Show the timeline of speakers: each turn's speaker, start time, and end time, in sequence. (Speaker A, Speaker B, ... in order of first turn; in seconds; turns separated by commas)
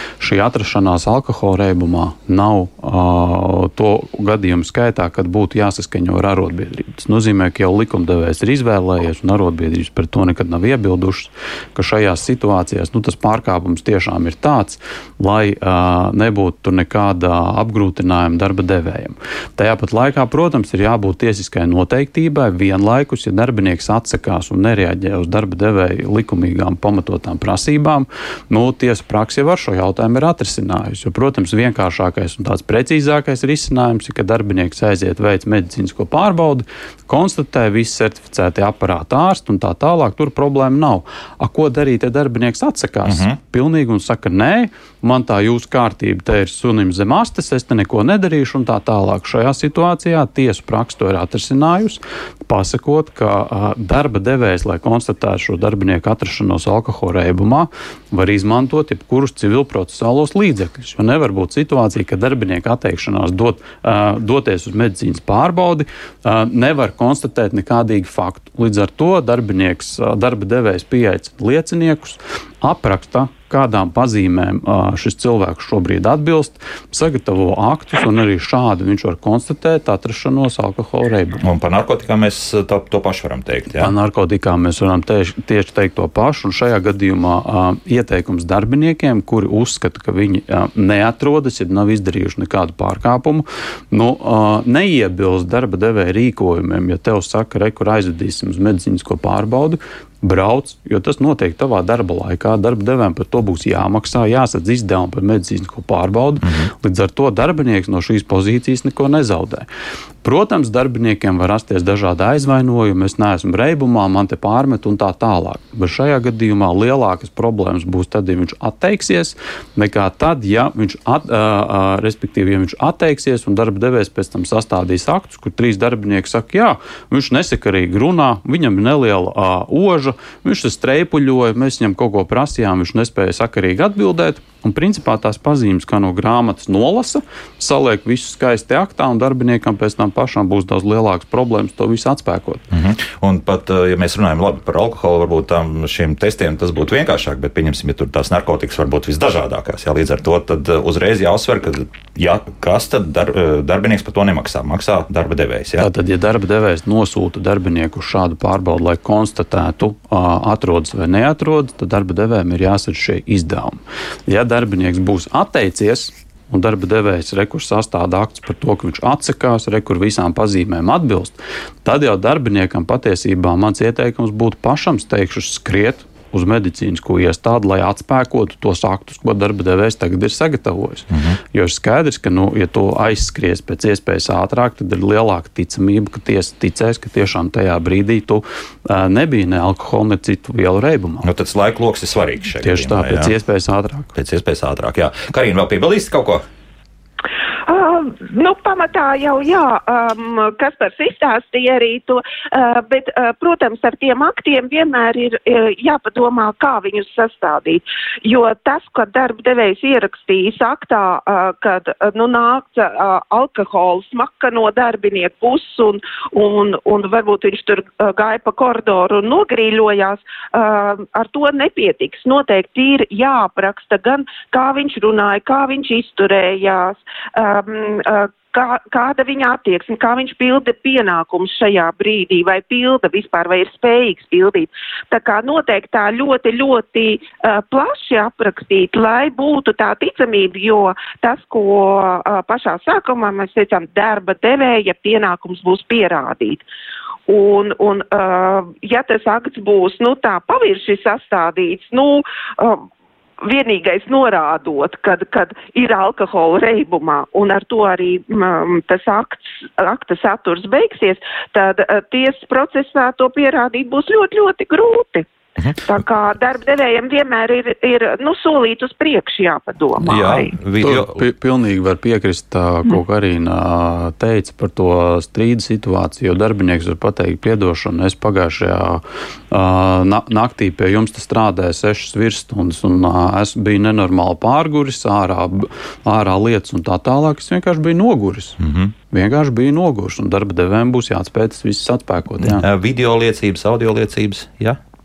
Speaker A: 0.2-81.4, Speaker B: 43.0-43.4, Speaker B: 81.4-83.9, Speaker A: 83.8-109.7, Speaker B: 106.4-106.7, Speaker A: 110.2-142.6, Speaker B: 142.7-155.9, Speaker A: 155.8-191.3, Speaker B: 181.1-181.4, Speaker B: 191.2-193.3, Speaker A: 192.6-194.1, Speaker B: 194.1-196.4, Speaker C: 197.7-246.6, Speaker C: 247.3-252.8, Speaker C: 253.4-265.2, Speaker C: 265.8-270.5, Speaker B: 270.0-271.2, Speaker A: 270.8-292.7, Speaker B: 288.6-288.9, Speaker B: 292.4-294.8